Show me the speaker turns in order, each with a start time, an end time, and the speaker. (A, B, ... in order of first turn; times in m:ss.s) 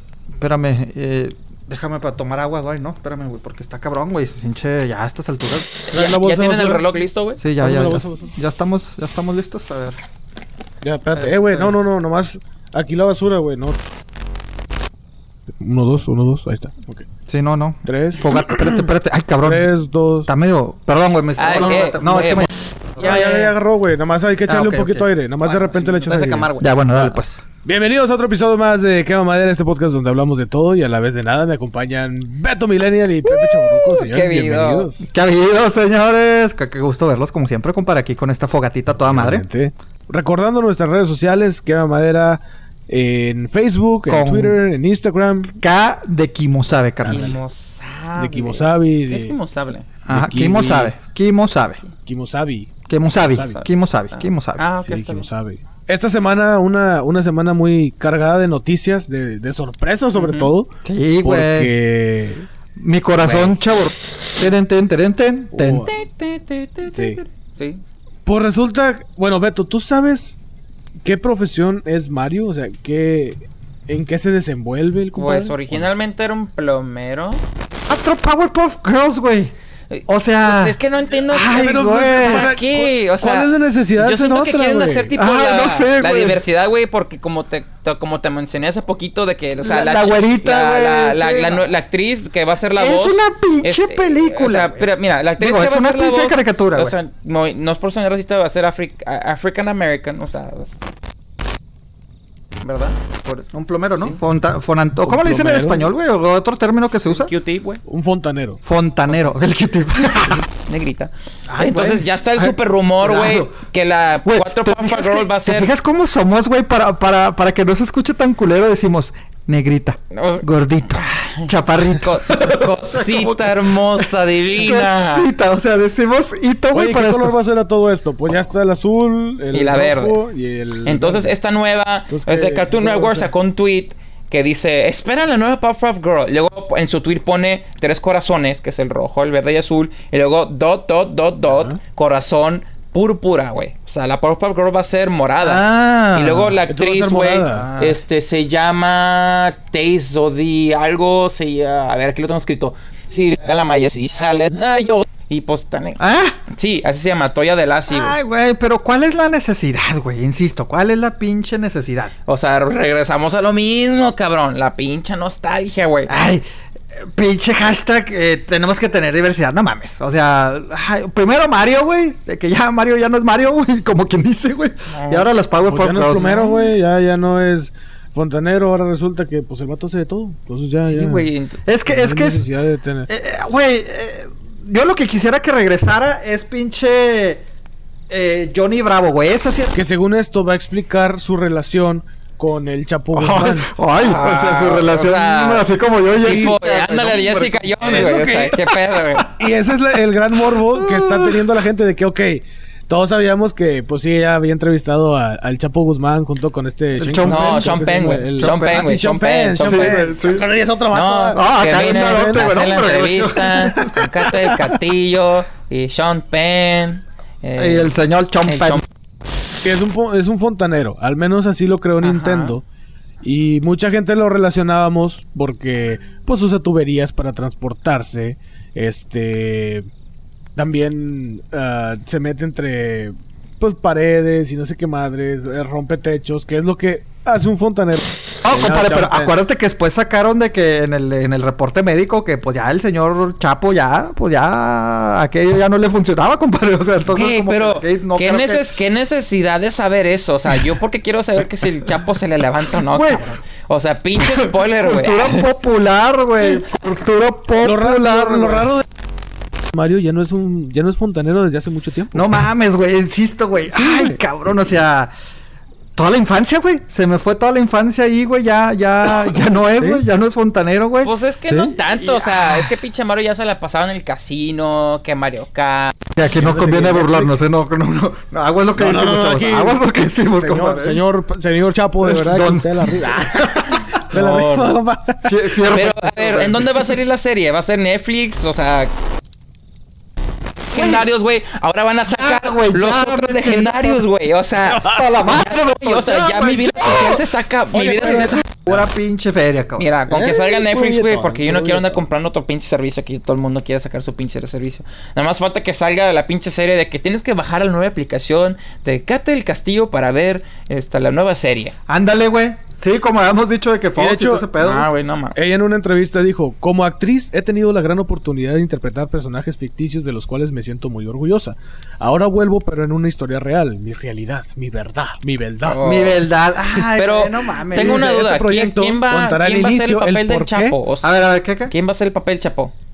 0:00.4-0:05.8 A
0:05.9-0:07.4 B
0:05.9-0:06.9 C
0:07.4-0:10.0 A
0:07.6-0:08.3 C
0:10.8-0:13.9 C
0:11.1-0:11.8 A
0:15.6-0:17.1 C
0:17.3-0:19.7 A
0:17.8-0:18.4 C
0:19.4-0:20.3 C
0:20.3-0:23.2 A
0:21.4-0:23.5 B
0:23.0-0:35.1 C
0:24.5-0:25.1 A
0:25.4-0:26.7 B
0:26.6-0:27.4 A
0:33.3-0:34.9 B
0:35.1-0:39.5 A
0:39.0-0:45.6 C
0:44.1-0:44.6 A
0:45.6-0:47.4 A
0:47.0-0:47.4 C
0:47.0-0:49.9 B
0:48.2-0:49.4 C
0:50.0-0:51.8 A
0:50.1-0:50.9 C
0:52.0-0:52.7 C
0:52.9-0:54.6 A
0:53.2-0:53.6 C
0:53.4-0:55.3 B
0:54.9-1:00.7 C
1:00.2-1:00.5 B
1:00.8-1:01.7 A
1:01.2-1:02.4 C
1:02.8-1:05.9 A
1:03.2-1:03.6 B
1:05.5-1:05.9 C
1:05.7-1:07.8 B
1:06.8-1:07.2 C
1:08.3-1:10.4 C
1:11.0-1:15.9 C
1:15.1-1:17.4 B
1:17.9-1:19.5 A
1:19.9-1:40.8 B
1:20.1-1:20.8 A
1:21.3-1:22.5 A
1:21.5-1:25.1 C
1:25.2-1:26.4 A
1:29.6-1:31.6 A
1:32.8-1:37.0 A
1:42.6-1:44.2 B
1:43.5-1:47.3 A
1:45.0-1:45.9 C
1:47.0-1:47.8 B
1:47.9-1:48.6 C
1:48.6-1:50.5 A
1:49.1-1:49.4 B
1:50.7-1:55.7 B
1:51.5-1:53.6 A
1:54.2-2:04.0 A
2:00.1-2:05.3 B
2:04.6-2:07.4 A
2:06.7-2:11.4 C
2:09.5-2:10.2 B
2:10.8-2:36.0 B
2:12.1-2:13.3 C
2:21.5-2:21.8 C
2:25.4-2:26.6 A
2:26.7-2:27.7 C
2:27.5-2:28.0 A
2:36.0-2:36.4 A
2:36.5-2:38.2 B
2:37.9-2:42.1 A
2:42.3-2:46.1 B
2:46.1-2:46.4 A
2:47.2-2:56.6 A
2:54.9-2:55.3 B
2:55.7-3:01.3 C
2:56.1-2:56.6 B
3:00.8-3:01.6 B
3:01.6-3:02.4 A
3:01.9-3:03.1 C
3:03.1-3:07.4 A
3:08.1-3:09.8 A
3:09.7-3:13.7 C
3:13.1-3:18.7 A
3:14.0-3:15.6 B
3:16.2-3:19.3 B
3:16.2-3:16.6 C
3:17.8-3:18.6 C
3:19.4-3:31.4 C
3:20.5-3:21.4 A
3:27.0-3:28.7 A
3:27.2-3:30.1 B
3:29.6-3:30.5 A
3:30.9-3:38.8 B
3:31.3-3:34.0 A
3:32.0-3:32.5 C
3:37.6-3:38.8 A
3:39.6-3:42.6 C
3:42.0-3:42.6 B
3:43.2-3:49.8 C
3:50.6-3:59.4 C
3:58.4-4:08.7 A
4:07.1-4:15.5 B
4:12.9-4:13.3 A
4:14.2-4:18.7 A
4:17.6-4:18.8 C
4:19.7-4:22.4 C
4:22.1-4:25.1 A
4:23.7-4:24.2 C
4:26.0-4:31.1 A
4:29.8-4:30.0 C
4:31.0-4:36.0 B
4:31.6-4:32.7 A
4:36.2-4:41.0 A
4:36.4-4:37.4 C
4:38.8-4:39.8 C
4:40.4-4:45.3 C
4:42.0-4:44.0 A
4:44.1-4:44.8 B
4:45.2-4:46.9 A
4:45.7-4:48.9 B
4:50.7-4:51.1 A
4:50.7-4:58.4 B
4:52.1-4:54.0 A
4:54.8-4:57.2 A
4:57.7-4:58.8 C
4:58.0-4:59.9 A
4:59.8-5:11.8 B
5:00.1-5:02.1 C
5:11.9-5:14.9 A
5:14.0-5:14.5 C
5:14.6-5:15.4 B
5:15.4-5:26.0 C
5:25.6-5:26.2 B
5:25.8-5:28.1 A
5:27.0-5:31.1 B
5:27.7-5:30.8 C
5:31.0-5:31.7 A
5:31.7-5:32.7 B